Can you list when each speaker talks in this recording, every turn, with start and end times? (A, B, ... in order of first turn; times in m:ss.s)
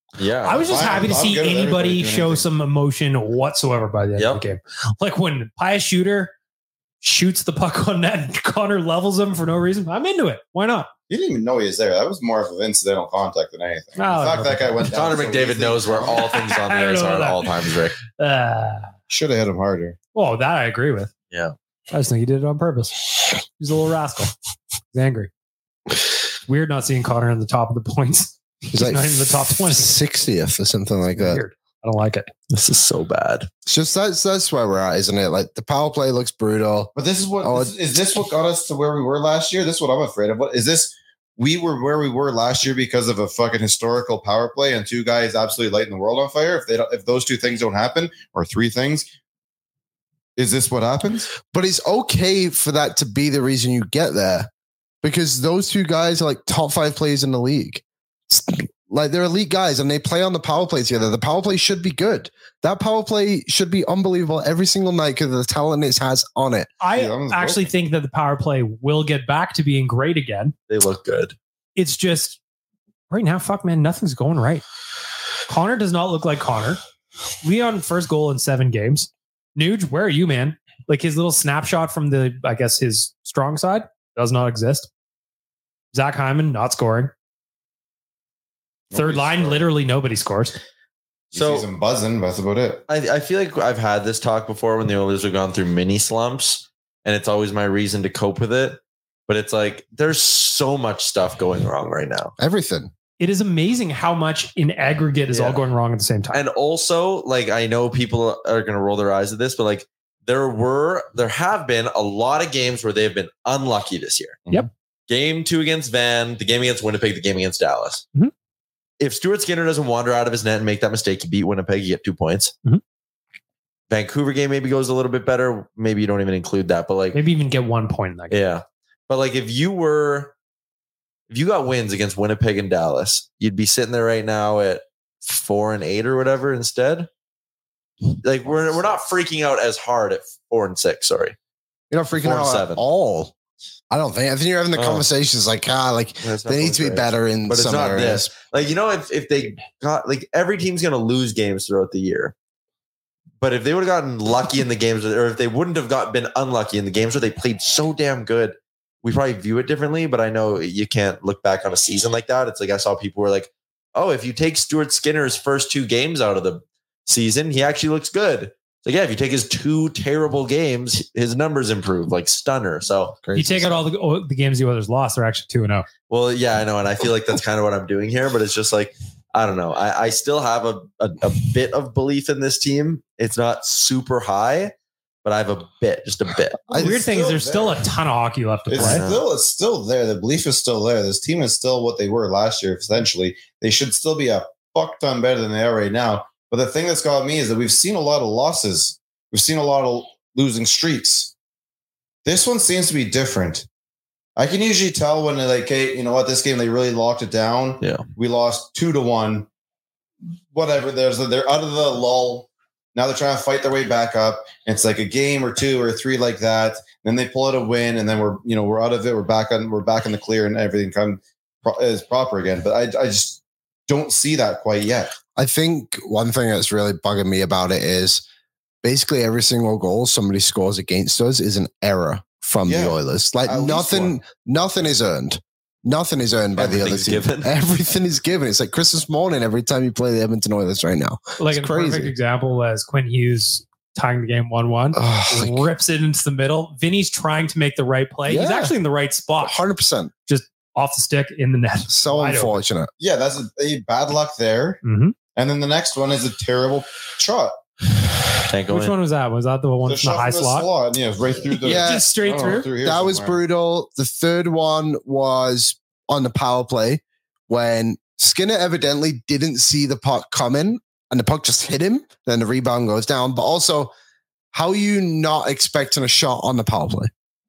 0:00.2-0:01.2 A
0:00.4-0:06.3 B
0:00.6-0:02.4 C
0:07.0-0:10.9 B
0:11.1-0:16.2 C
0:14.0-0:14.9 B
0:14.9-0:18.0 A
0:16.1-0:17.5 B
0:18.1-0:18.9 B
0:19.1-0:20.0 C
0:20.1-0:21.1 B
0:21.9-0:24.3 B
0:24.9-0:25.3 B
0:26.4-0:30.0 B
0:28.7-0:31.4 D
0:31.2-0:32.3 B
0:32.5-0:33.5 A
0:33.6-0:37.7 D
0:36.9-0:49.1 C
0:50.4-0:51.3 C
0:51.4-0:54.5 D
0:55.0-1:06.7 D
1:06.8-1:10.5 B
1:06.9-1:07.7 C
1:10.7-1:11.4 A
1:11.8-1:12.4 B
1:13.1-1:14.6 B
1:15.5-1:16.8 B
1:17.4-1:24.9 B
1:25.9-1:27.1 B
1:28.9-1:29.7 C
1:28.9-1:30.6 B
1:31.3-1:32.8 C
1:31.3-1:31.7 A
1:32.9-1:42.3 A
1:42.4-1:42.9 D
1:43.2-1:46.4 B
1:45.3-1:45.6 A
1:46.3-1:54.4 A
1:55.1-1:58.0 A
1:59.0-2:02.5 A
2:03.9-2:07.2 A
2:07.1-2:08.4 B
2:08.3-2:10.3 A
2:11.3-2:17.1 A
2:18.1-2:21.4 A
2:21.9-2:23.3 D
2:22.2-2:22.8 A
2:23.9-2:28.3 D
2:24.7-2:25.1 A
2:26.2-2:32.3 A
2:33.4-2:53.2 A
2:53.2-2:53.8 D
2:53.3-2:55.9 B
2:56.1-3:04.7 A
3:05.2-3:06.6 A
3:06.7-3:07.9 C
3:06.7-3:09.1 B
3:08.7-3:21.3 C
3:08.8-3:09.2 A
3:22.2-3:23.6 C
3:24.4-3:29.5 C
3:30.5-3:45.1 C
3:45.4-3:48.2 D
3:48.8-4:02.1 D
3:52.6-3:54.2 C
3:56.6-3:57.5 A
4:01.4-4:09.6 B
4:04.9-4:05.7 D
4:08.3-4:08.7 D
4:09.4-4:10.1 D
4:10.3-4:12.6 B
4:11.9-4:12.9 D
4:13.0-4:14.8 C
4:14.8-4:15.1 B
4:15.3-4:17.6 C
4:18.4-4:18.9 A
4:18.7-4:20.7 B
4:19.8-4:23.4 C
4:21.6-4:33.9 D
4:21.7-4:22.7 B
4:34.5-4:37.1 D